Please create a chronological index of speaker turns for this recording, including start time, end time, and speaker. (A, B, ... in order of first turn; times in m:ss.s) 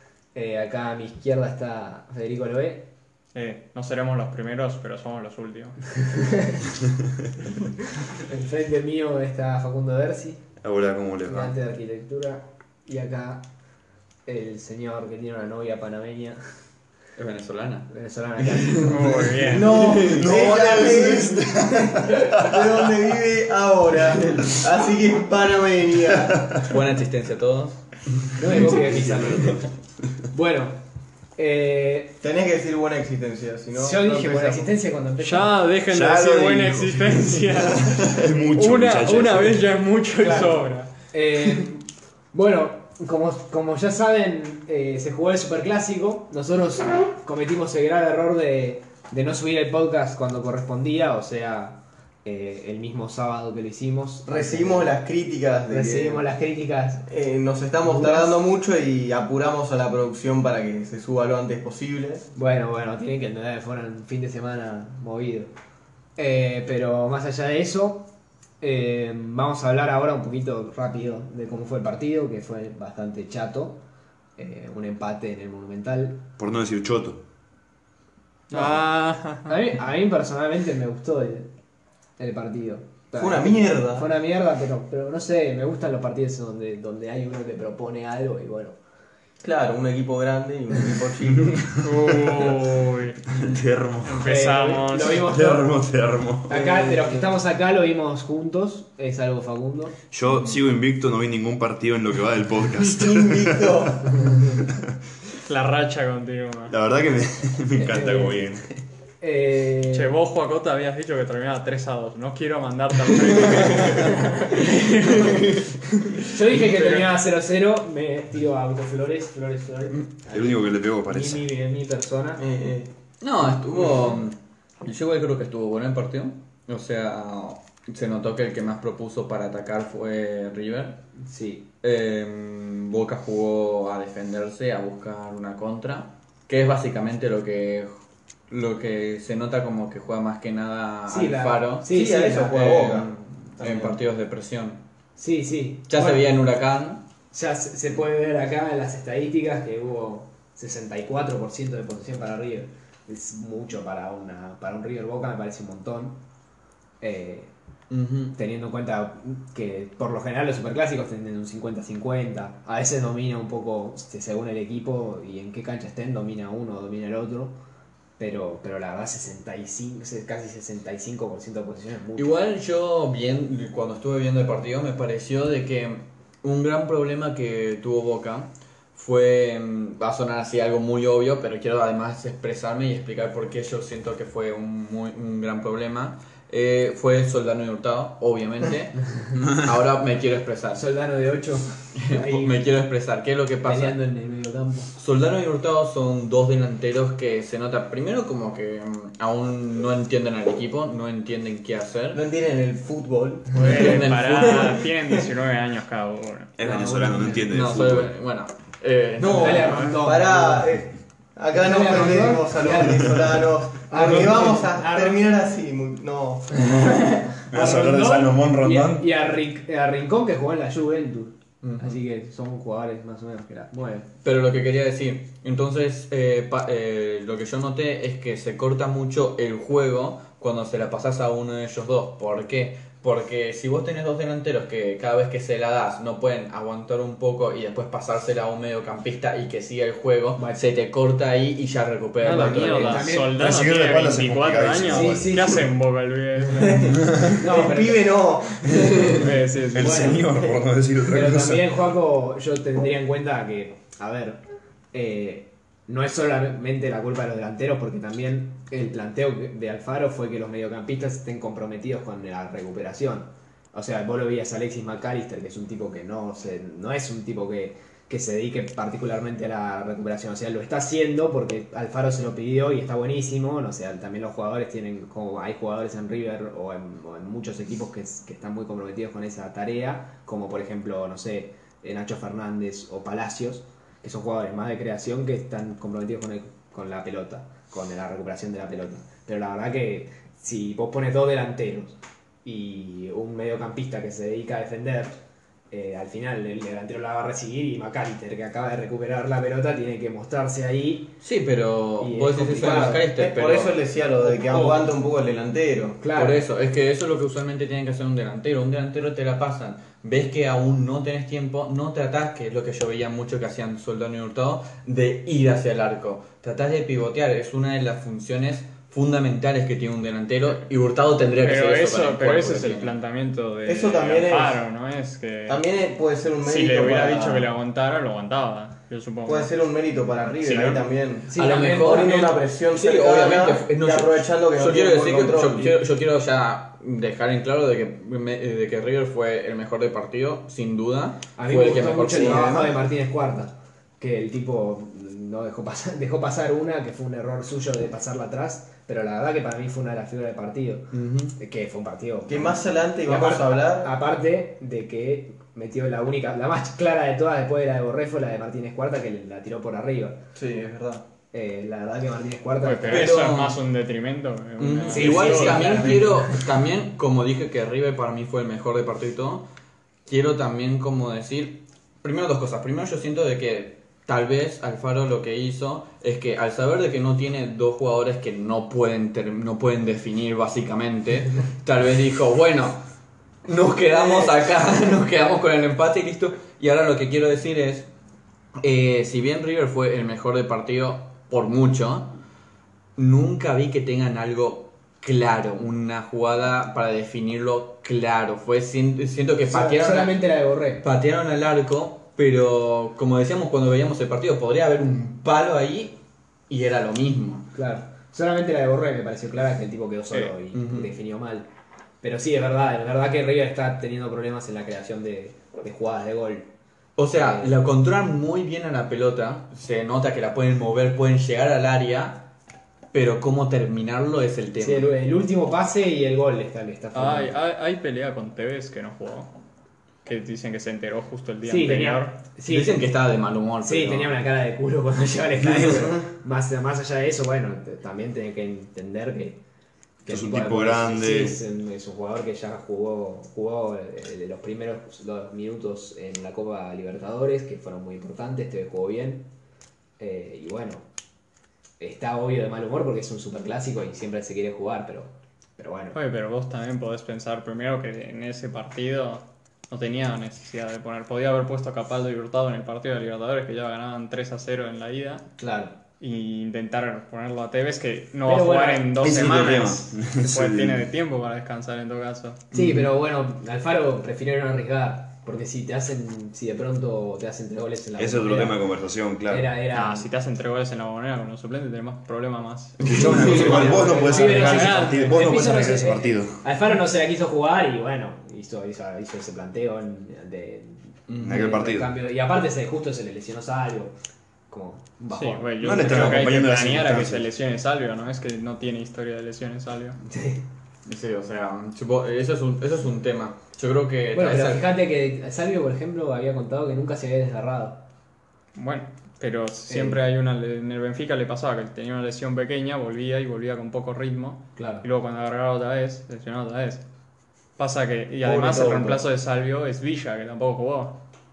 0:00.4-0:02.9 A
0:03.3-0:05.8 B
0:06.0-0:06.6 A
0:08.2-0:10.4 A
0:10.6-0:11.5 C
0:11.2-0:13.4 A
0:14.3-0:16.4 A
0:17.2-0:17.9 D
0:17.9-0:19.3 A
0:18.4-0:19.0 D
0:18.8-0:20.0 B
0:19.1-0:22.9 C
0:19.5-0:26.4 E
0:19.8-0:20.3 D
0:26.3-0:26.6 C
0:26.6-0:27.8 D
0:28.4-0:29.7 A
0:28.5-0:29.6 C
0:30.3-0:30.8 A
0:31.4-0:32.2 A
0:32.2-0:34.7 E
0:33.7-0:35.6 A
0:35.2-0:41.7 B
0:35.9-0:39.6 C
0:40.2-0:54.9 A
0:54.3-0:56.2 E
0:55.7-0:57.1 A
0:57.1-1:02.3 E
0:57.8-0:58.4 A
1:02.4-1:05.5 A
1:06.2-1:08.1 A
1:08.6-1:13.8 A
1:14.4-1:16.2 A
1:16.4-1:17.2 C
1:18.5-1:19.6 B
1:19.5-1:21.5 A
1:22.2-1:28.8 A
1:23.2-1:24.1 E
1:29.4-1:31.8 E
1:31.8-1:33.3 B
1:33.3-1:34.2 C
1:34.0-1:35.4 B
1:34.2-1:35.8 A
1:35.3-1:36.7 C
1:36.5-1:40.0 A
1:36.5-1:37.2 E
1:40.1-1:44.8 C
1:43.0-1:44.2 E
1:45.4-1:46.8 B
1:46.7-1:48.6 C
1:47.8-1:48.6 A
1:49.2-1:50.2 A
1:49.9-1:56.2 B
1:56.3-2:02.4 A
2:00.3-2:01.5 C
2:02.4-2:02.9 E
2:03.2-2:11.0 D
2:11.2-2:11.7 A
2:11.8-2:17.9 D
2:18.5-2:21.9 D
2:21.1-2:22.8 A
2:21.9-2:24.0 E
2:22.4-2:24.8 D
2:25.2-2:26.2 A
2:25.9-2:27.0 D
2:27.3-2:36.2 A
2:37.0-2:37.5 A
2:37.9-2:38.4 D
2:38.4-2:47.6 A
2:48.2-2:52.3 A
2:52.2-3:10.9 D
3:10.8-3:12.5 A
3:12.0-3:14.0 D
3:13.7-3:14.9 A
3:15.0-3:22.2 D
3:22.1-3:25.2 E
3:23.6-3:24.8 D
3:23.6-3:26.6 B
3:26.6-3:28.1 C
3:26.6-3:27.5 A
3:27.5-3:29.9 D
3:29.2-3:36.5 E
3:29.3-3:30.7 A
3:31.5-3:35.3 A
3:36.6-3:44.1 A
3:37.4-3:39.1 C
3:41.6-3:42.0 D
3:44.2-4:03.1 D
4:00.4-4:00.6 A
4:02.2-4:07.1 B
4:02.3-4:03.5 A
4:03.3-4:05.7 C
4:04.8-4:05.6 A
4:06.6-4:09.4 E
4:07.4-4:08.2 A
4:08.7-4:10.3 B
4:09.7-4:11.7 C
4:09.8-4:10.4 A
4:11.1-4:14.4 A
4:14.9-4:55.2 A
4:55.7-5:01.2 A
5:01.2-5:03.8 D
5:02.0-5:03.1 A
5:02.6-5:06.0 E
5:04.2-5:04.9 A
5:06.0-5:06.4 A
5:06.2-5:22.9 D
5:21.4-5:25.6 B
5:23.7-5:24.6 E
5:25.5-5:27.5 E
5:26.4-5:29.5 B
5:29.3-5:35.8 E
5:30.4-5:30.8 B
5:31.3-5:32.3 A
5:31.4-5:42.6 D
5:41.4-6:00.2 A
5:42.1-5:42.8 E
5:50.9-5:51.4 D
5:52.3-5:53.9 E
6:00.4-6:01.0 E
6:01.3-6:03.1 A
6:02.6-6:06.4 B
6:02.9-6:03.6 D
6:02.9-6:03.3 E
6:04.6-6:09.5 D
6:04.9-6:06.4 A
6:10.1-6:22.8 D
6:23.5-6:27.9 D
6:28.6-6:32.1 D
6:33.0-6:40.2 D
6:39.4-6:40.8 A
6:40.8-6:46.0 D
6:46.5-6:47.5 D
6:47.6-6:51.5 A
6:50.5-6:50.9 D
6:52.0-6:56.5 A
6:57.0-7:02.2 D
6:57.1-6:57.6 A
7:02.9-7:04.9 D
7:04.6-7:07.4 A
7:06.9-7:09.3 B
7:10.0-7:12.2 B
7:11.5-7:12.9 A
7:12.5-7:14.2 D
7:13.6-7:19.4 A
7:15.7-7:16.1 E
7:20.0-7:29.3 A
7:20.1-7:21.4 C
7:30.0-7:30.8 A
7:31.8-7:36.0 A
7:35.9-7:45.2 B
7:45.4-7:45.8 A
7:46.0-7:52.5 B
7:48.2-7:49.3 A
7:49.0-7:50.8 C
7:52.5-7:58.7 A
7:52.6-7:52.9 C
7:58.0-7:59.5 C
7:59.3-8:00.1 A
7:59.7-8:05.7 B
8:02.8-8:03.7 D
8:02.9-8:06.4 C
8:03.0-8:13.9 A
8:11.1-8:11.4 D
8:11.2-8:11.9 C
8:14.5-8:16.0 A
8:15.1-8:20.0 B
8:15.6-8:17.3 C
8:20.0-8:20.4 A
8:20.9-8:24.7 D
8:24.1-8:27.8 A
8:28.6-8:36.8 B
8:29.7-8:30.0 A
8:34.6-8:34.8 A
8:37.6-8:41.0 B
8:38.2-8:39.0 E